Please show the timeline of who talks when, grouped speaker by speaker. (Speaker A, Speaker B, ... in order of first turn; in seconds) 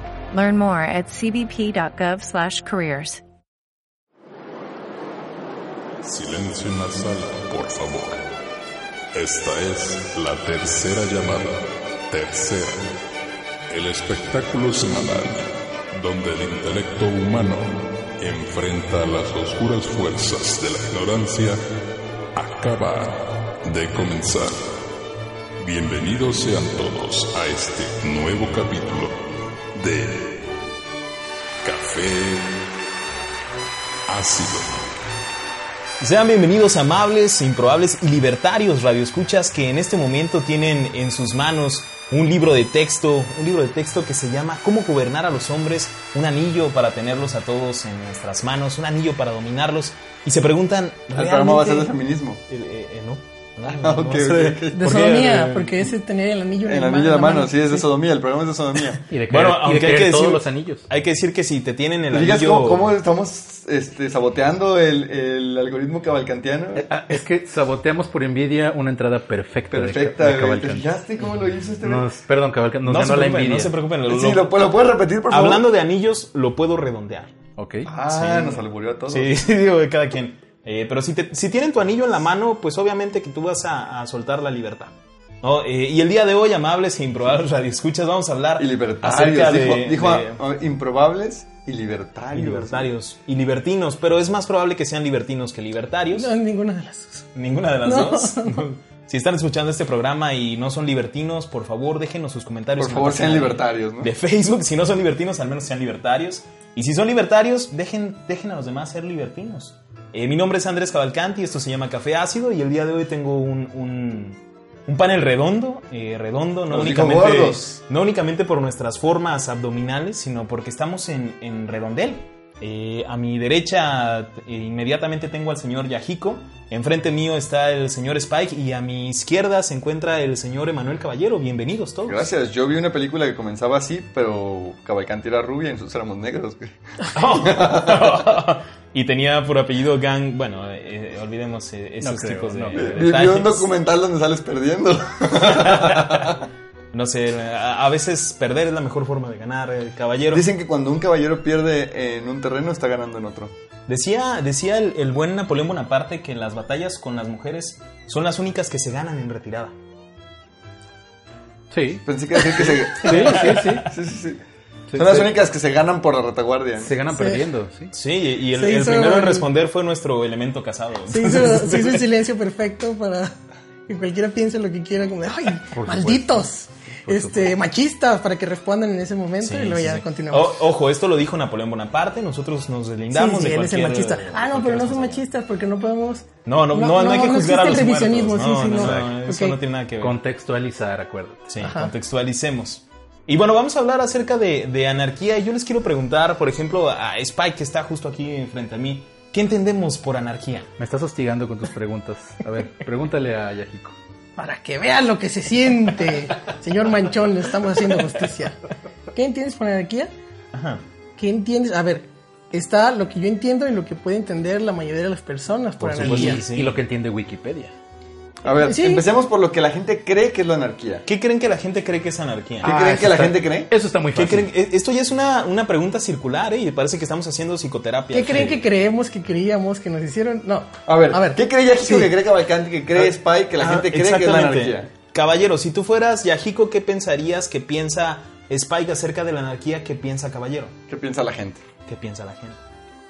Speaker A: 0.3-3.2
Speaker B: 6.0-8.2, 9.1-12.9, 13.7-21.6, 22.4-24.7, 25.6-29.2, 29.8-30.4, 31.6-32.5, 34.1-34.9
Speaker C: 36.0-51.9, 52.5-55.6, 59.3-63.0, 72.8-74.6, 75.3-77.3, 78.1-90.4, 92.3-96.3, 97.3-132.3, 137.1-143.7, 145.4-146.3, 146.9-150.5, 153.9-159.7, 162.9-163.8, 167.9-172.1, 179.4-185.2, 186.4-190.2, 191.5-200.7, 210.5-210.8, 216.0-216.8, 221.1-222.7, 224.1-228.6, 233.0-240.8, 241.9-242.6
Speaker D: 51.1-52.4, 53.6-55.5, 56.7-59.0, 62.1-66.9, 69.7-72.1, 74.1-75.7, 77.9-79.3, 88.6-92.9, 102.8-104.1, 116.7-117.8, 132.1-138.3, 142.8-146.5, 150.3-153.5, 162.1-164.4, 164.9-166.9, 218.4-221.1, 222.6-223.7, 230.9-234.9, 240.9-241.6
Speaker E: 54.7-57.9, 96.1-97.3, 97.8-98.7, 167.1-167.4, 168.6-169.5, 171.1-173.3, 173.9-180.6, 183.1-189.6, 191.6-191.9, 204.4-208.6, 209.1-210.1, 211.2-216.4, 218.5-219.1, 228.1-232.1
Speaker F: 59.1-60.8, 66.8-70.9, 71.8-73.7, 77.6-77.9, 142.0-143.2, 161.7-163.9, 164.9-165.3, 166.8-167.9, 175.7-176.5, 177.1-177.6, 190.0-191.5, 200.8-203.9, 215.8-217.7, 222.6-224.5